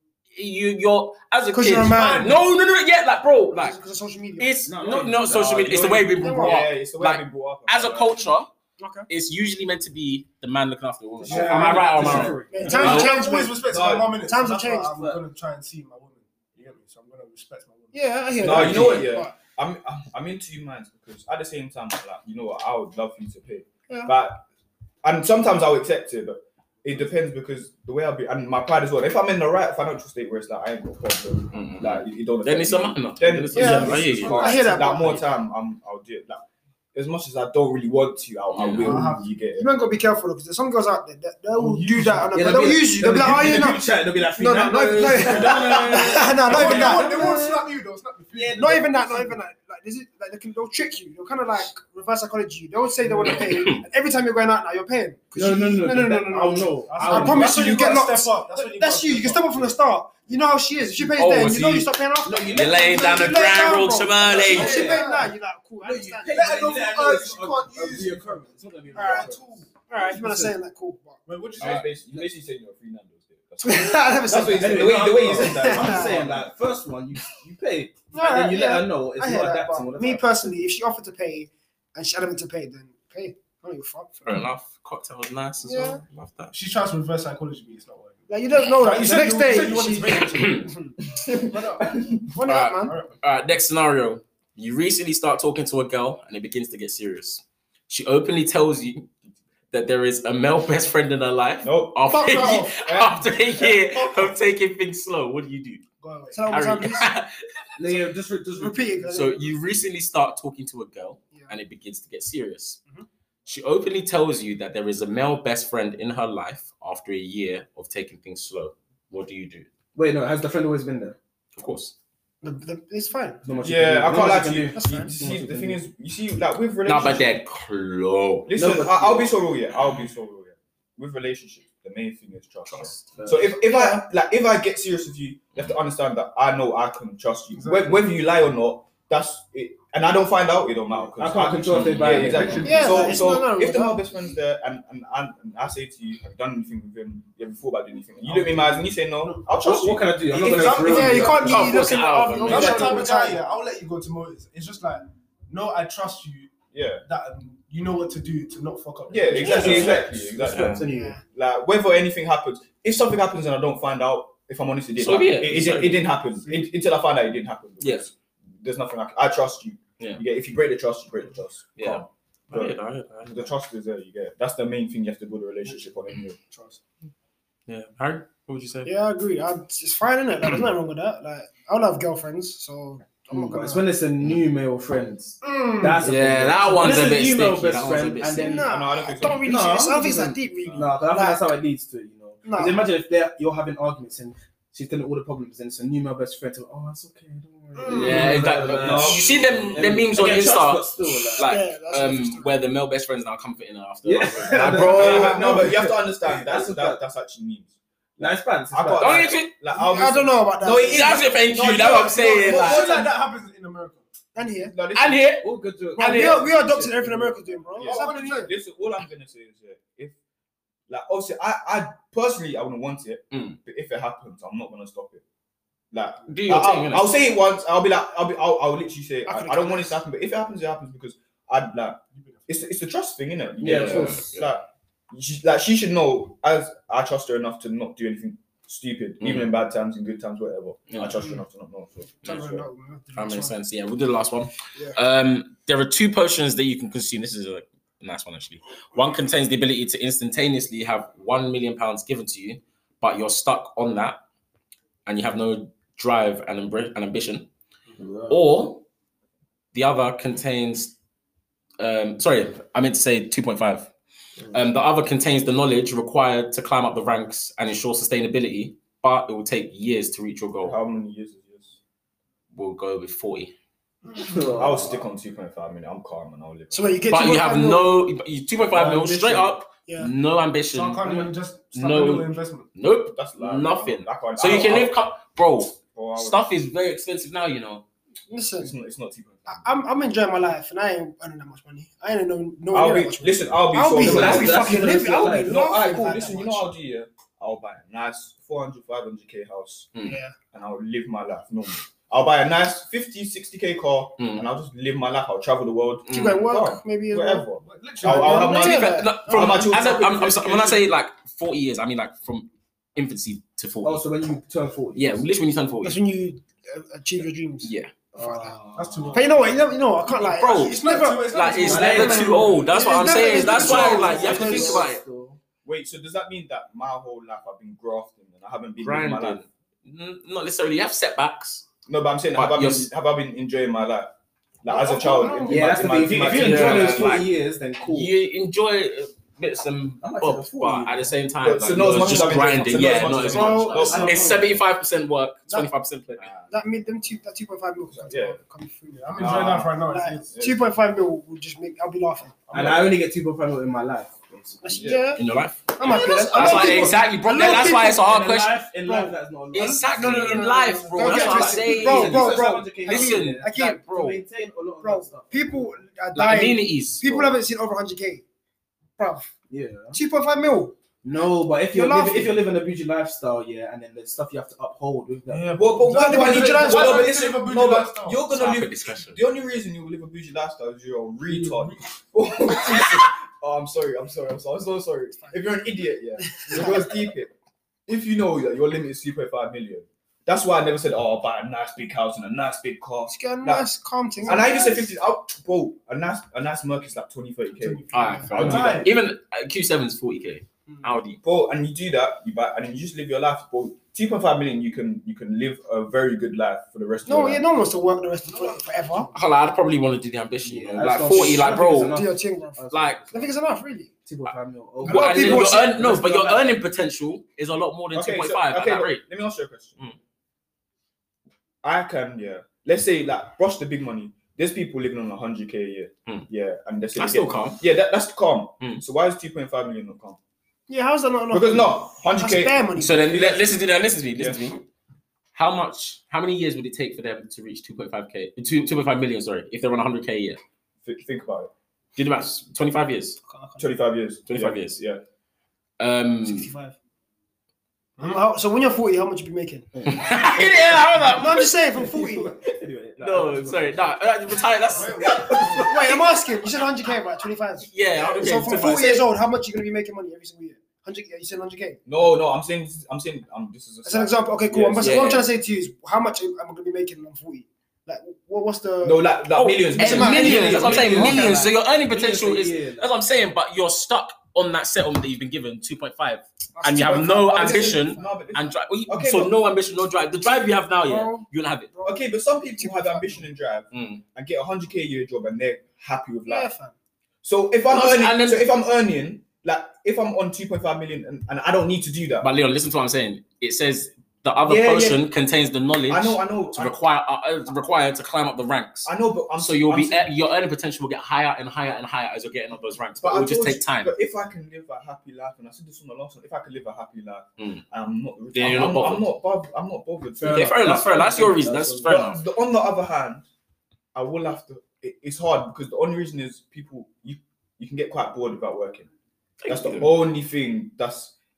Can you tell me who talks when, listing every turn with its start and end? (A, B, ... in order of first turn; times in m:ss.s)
0:00.3-0:03.8 A
0:01.5-0:02.4 B
0:03.5-0:04.7 B
0:04.4-0:08.5 A
0:04.6-0:06.3 C
0:06.2-0:06.6 B
0:06.3-0:08.2 D
0:08.8-0:09.1 B
0:09.1-0:13.1 A
0:11.2-0:13.1 C
0:11.2-0:12.3 D
0:11.4-0:18.8 E
0:12.5-0:13.6 B
0:13.6-0:14.2 D
0:14.2-0:14.9 B
0:14.9-0:15.2 C
0:17.9-0:19.3 B
0:18.4-0:24.4 D
0:25.0-0:39.7 D
0:31.5-0:34.7 A
0:33.5-0:35.3 B
0:38.5-0:38.9 A
0:38.8-0:39.3 E
0:38.8-0:43.8 B
0:41.6-0:43.6 E
0:42.3-0:47.7 C
0:44.4-0:47.4 B
0:45.0-0:49.3 E
0:48.3-0:48.8 C
0:48.6-1:06.4 B
0:53.2-0:53.5 E
0:53.2-0:53.8 A
0:55.3-0:57.7 C
0:56.8-0:59.7 E
1:01.0-1:01.9 A
1:02.2-1:03.5 C
1:02.5-1:05.0 A
1:04.3-1:05.3 E
1:04.3-1:05.1 C
1:05.8-1:10.5 C
1:06.3-1:09.6 E
1:08.9-1:11.2 B
1:11.2-1:12.0 E
1:11.6-1:16.4 D
1:11.6-1:11.8 C
1:13.6-1:16.2 B
1:14.3-1:20.6 C
1:18.1-1:24.3 B
1:24.2-1:26.5 A
1:25.6-1:26.0 B
1:26.5-1:30.7 E
1:28.3-1:30.9 B
1:30.2-1:30.7 A
1:31.1-1:32.2 D
1:31.5-1:31.8 E
1:31.5-1:33.0 B
1:32.4-1:39.1 A
1:32.9-1:33.1 E
1:39.7-1:45.8 A
1:41.6-1:44.3 D
1:42.1-1:42.7 B
1:46.0-1:46.5 E
1:46.3-1:47.1 B
1:46.5-1:47.3 A
1:47.8-1:49.0 C
1:48.6-1:49.6 B
1:49.1-1:52.8 A
1:53.4-1:59.7 A
1:59.9-2:01.2 C
2:01.6-2:01.9 A
2:02.4-2:03.4 B
2:03.4-2:05.8 C
2:03.6-2:07.3 D
2:04.7-2:05.1 B
2:06.8-2:08.5 A
2:08.5-2:31.2 D
2:08.5-2:09.4 C
2:09.8-2:10.1 A
2:12.7-2:13.1 A
2:13.1-2:13.7 C
2:17.5-2:18.0 E
2:20.9-2:23.2 C
2:21.7-2:22.6 A
2:22.5-2:23.0 E
2:22.6-2:24.0 B
2:28.2-2:29.7 E
2:29.5-2:31.9 C
2:30.3-2:33.4 B
2:31.0-2:33.1 A
2:32.4-2:36.5 E
2:36.7-2:37.0 D
2:37.0-2:40.0 E
2:39.1-2:56.4 D
2:39.3-2:41.2 C
2:40.5-2:40.8 A
2:40.8-2:41.2 B
2:45.0-2:46.1 A
2:47.8-2:48.1 A
2:51.8-2:53.5 A
2:56.5-2:56.8 E
2:57.7-2:58.9 A
2:58.8-3:03.8 B
3:03.3-3:08.8 C
3:05.4-3:06.0 B
3:06.0-3:08.6 A
3:08.3-3:11.5 B
3:08.6-3:09.5 D
3:09.3-3:21.5 C
3:10.6-3:10.9 D
3:12.4-3:12.8 B
3:17.8-3:18.2 B
3:17.9-3:25.5 A
3:18.0-3:18.2 E
3:18.7-3:20.0 D
3:21.4-3:22.6 B
3:24.0-3:27.0 C
3:24.5-3:25.1 E
3:24.9-3:33.0 D
3:24.9-3:25.3 B
3:28.2-3:29.3 C
3:29.0-3:29.5 A
3:29.7-3:31.3 B
3:30.9-3:33.0 A
3:32.1-3:34.0 E
3:34.4-3:34.7 B
3:34.7-3:35.3 D
3:34.9-3:36.4 A
3:35.4-3:37.5 C
3:36.0-3:38.5 B
3:37.8-3:38.4 E
3:37.8-3:40.2 D
3:40.9-3:45.2 D
3:43.3-3:43.6 A
3:45.9-4:02.3 D
3:46.3-3:47.1 A
3:49.2-3:50.0 B
3:52.1-3:52.5 E
3:53.6-3:54.3 C
3:53.6-3:54.4 A
3:59.2-3:59.5 A
4:00.9-4:01.2 A
4:02.2-4:03.5 B
4:02.2-4:14.2 A
4:15.0-4:17.5 A
4:18.0-4:18.4 C
4:18.3-4:18.8 A
4:19.7-4:20.9 A
4:21.8-4:23.9 A
4:24.5-4:30.8 A
4:30.6-4:31.7 D
4:32.5-4:33.5 A
4:34.2-4:35.0 C
4:34.6-4:37.1 D
4:36.7-4:37.9 B
4:37.1-4:47.8 A
4:38.7-4:39.6 C
4:40.7-4:42.7 E
4:43.1-4:45.0 D
4:45.9-4:46.4 D
4:48.3-4:48.7 B
4:48.6-4:49.8 D
4:49.4-4:56.7 B
4:52.7-4:59.9 D
4:53.9-4:55.6 C
5:00.0-5:00.3 B
5:00.5-5:10.8 D
5:04.2-5:04.4 A
5:06.1-5:06.4 A
5:06.1-5:07.5 B
5:07.6-5:08.7 E
5:08.0-5:09.8 B
5:08.3-5:14.0 A
5:13.8-5:15.3 C
5:14.9-5:16.0 A
5:15.8-5:18.6 B
5:17.6-5:17.9 A
5:18.1-5:19.3 C
5:18.7-5:19.9 E
5:19.1-5:24.9 B
5:20.1-5:25.0 A
5:20.5-5:23.0 E
5:21.5-5:25.4 C
5:25.6-5:29.4 D
5:28.8-5:31.6 A
5:31.9-5:34.1 D
5:32.4-5:32.9 A
5:34.6-5:37.2 D
5:34.7-5:36.1 E
5:35.1-5:35.5 B
5:35.5-5:38.1 C
5:36.1-5:37.3 A
5:37.8-5:46.3 A
5:40.0-5:41.1 C
5:41.4-5:44.3 D
5:41.7-5:44.5 C
5:43.3-5:44.3 B
5:46.2-5:46.5 D
5:46.5-5:52.4 B
5:47.9-5:48.4 D
5:48.9-5:50.4 E
5:49.2-5:49.8 D
5:50.3-5:50.6 D
5:52.5-5:52.9 E
5:52.5-5:55.0 C
5:54.6-5:55.2 B
5:54.7-5:55.1 D
5:55.1-5:58.6 A
5:55.8-5:58.1 B
5:55.9-6:00.4 C
5:58.8-6:03.9 B
5:59.5-6:04.2 A
6:01.0-6:05.6 C
6:04.8-6:08.2 B
6:06.1-6:07.4 A
6:09.0-6:09.3 B
6:09.5-6:10.0 C
6:09.9-6:10.7 B
6:11.0-6:15.7 C
6:11.7-6:12.4 B
6:15.3-6:18.2 E
6:15.6-6:27.3 D
6:15.9-6:17.1 B
6:18.3-6:19.2 A
6:21.2-6:21.8 E
6:25.2-6:25.6 B
6:26.2-6:26.9 B
6:27.9-6:33.7 D
6:33.1-6:34.9 B
6:34.2-6:38.9 D
6:37.6-6:38.9 E
6:37.9-6:41.2 A
6:38.0-6:38.3 B
6:38.4-6:38.9 C
6:41.2-6:47.4 D
6:47.0-6:49.1 B
6:48.3-6:48.6 E
6:49.1-6:52.0 A
6:50.4-6:53.3 C
6:51.5-6:53.9 B
6:52.7-6:53.0 A
6:54.0-6:56.1 C
6:54.8-6:56.4 B
6:54.8-6:59.0 A
6:57.9-6:59.8 D
7:01.6-7:10.2 D
7:06.9-7:07.6 A
7:10.7-7:13.2 B
7:11.3-7:13.4 D
7:12.8-7:14.6 A
7:14.2-7:14.4 D
7:15.3-7:20.4 A
7:20.8-7:21.5 D
7:22.0-7:23.2 A
7:23.3-7:23.6 B
7:23.6-7:25.0 D
7:24.3-7:24.8 A
7:25.8-7:26.5 A
7:26.2-7:26.8 B
7:28.0-7:29.7 B
7:29.7-7:31.0 C
7:29.9-7:31.5 A
7:31.1-7:32.4 B
7:31.7-7:34.0 C
7:33.0-7:36.0 A
7:34.7-7:35.7 E
7:35.2-7:35.7 C
7:35.6-7:41.8 B
7:37.6-7:39.1 A
7:41.8-7:45.1 D
7:43.8-7:49.1 B
7:44.8-7:45.3 A
7:48.8-7:51.1 D
7:49.3-8:01.7 A
7:49.7-7:51.5 B
7:49.9-7:52.8 C
7:56.5-7:58.2 B
7:56.8-7:59.4 D
8:00.8-8:03.3 B
8:01.8-8:06.5 D
8:03.7-8:04.0 A
8:06.3-8:06.7 B
8:07.2-8:12.3 D
8:07.7-8:08.5 A
8:12.2-8:23.9 A
8:14.4-8:15.0 C
8:15.9-8:16.8 D
8:18.8-8:20.1 D
8:23.0-8:30.6 D
8:28.3-8:29.1 A
8:30.2-8:32.0 C
8:30.2-8:32.2 A
8:31.8-8:33.3 D
8:33.9-8:38.9 D
8:39.4-8:40.0 A
8:39.5-8:41.1 D